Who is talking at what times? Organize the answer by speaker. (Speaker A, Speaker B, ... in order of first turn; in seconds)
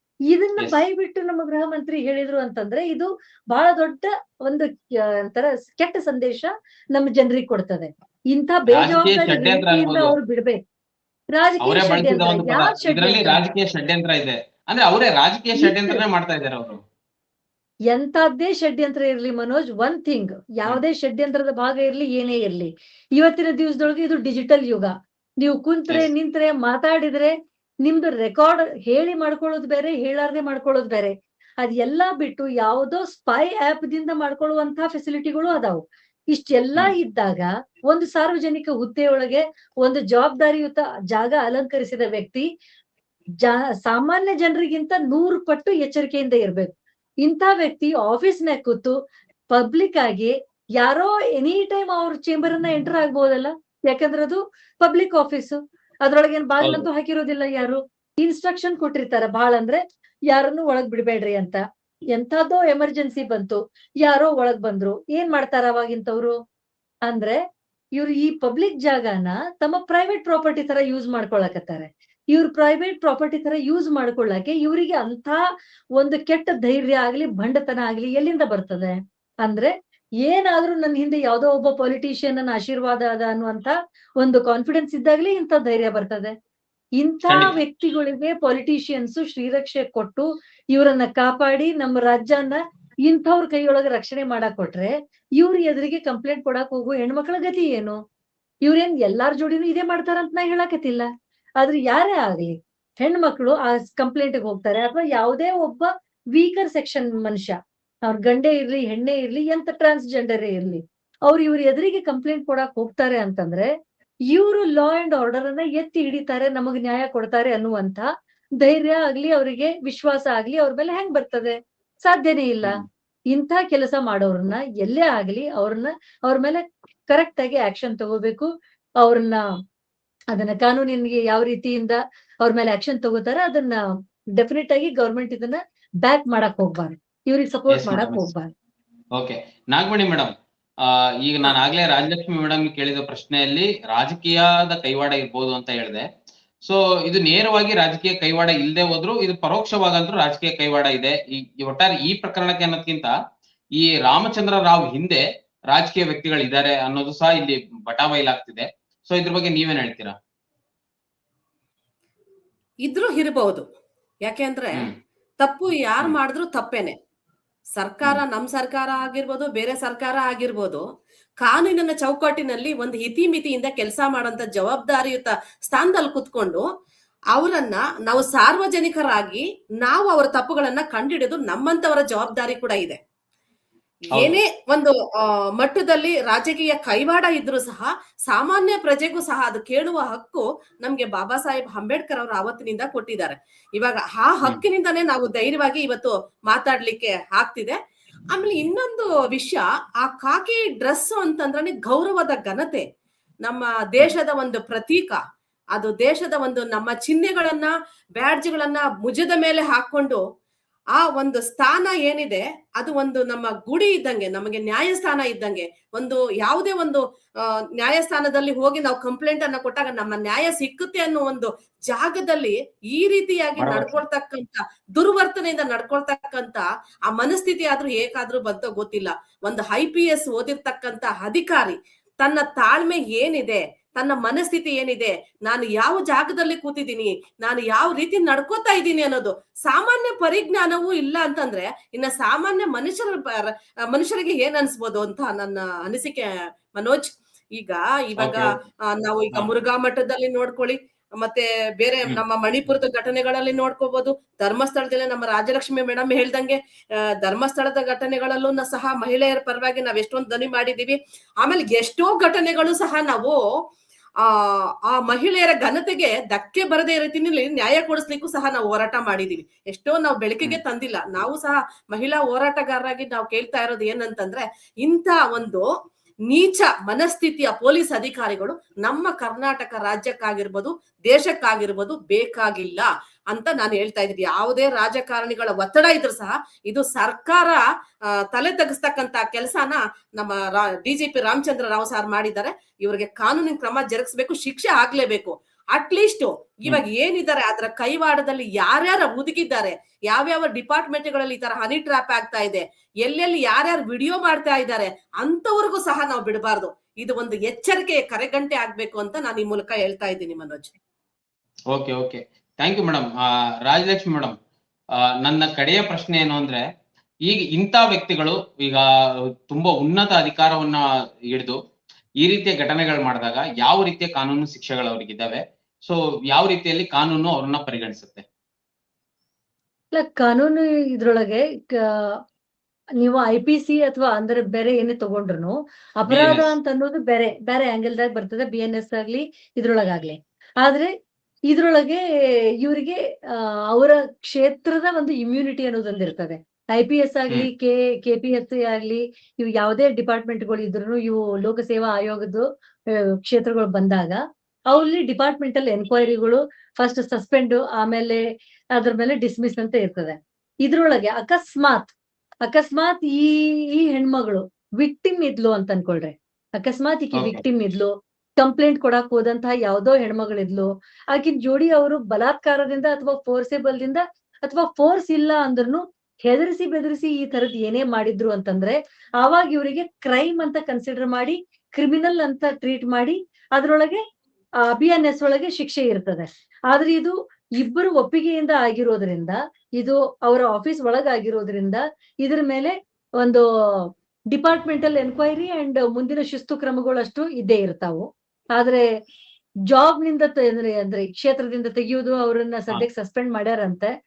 Speaker A: 0.3-10.6, 11.4-13.4, 15.6-16.0, 17.9-42.5, 43.4-46.7, 47.2-49.0, 49.5-61.6, 62.1-66.3, 67.1-67.4, 68.0-75.4, 76.0-79.7, 80.2-86.3, 87.0-98.0, 98.7-107.5, 108.1-113.7, 114.3-118.1, 118.6-128.5, 129.0-129.4, 130.3-133.8, 134.4-138.5, 329.9-332.2, 333.0-340.9, 341.5-342.0, 342.6-352.5, 353.0-358.2, 358.8-361.9, 362.5-384.0, 384.7-398.9, 399.7-403.9
Speaker B: 8.7-10.2, 11.6-16.8, 56.6-56.9, 87.3-87.6, 137.7-138.3, 139.2-146.1, 146.6-153.2, 153.8-160.2, 184.1-184.4, 223.6-224.0, 248.2-248.6, 311.7-314.4, 314.9-316.6, 317.3-321.6, 322.2-328.2, 336.1-336.5, 367.2-367.4
Speaker C: 162.8-163.7, 164.2-164.9, 165.4-166.9, 167.8-170.8, 171.4-176.7, 177.3-183.0, 184.1-197.8, 198.3-202.8, 203.4-205.2, 205.7-210.2, 210.9-256.6, 257.2-263.4, 264.2-275.7, 276.3-310.7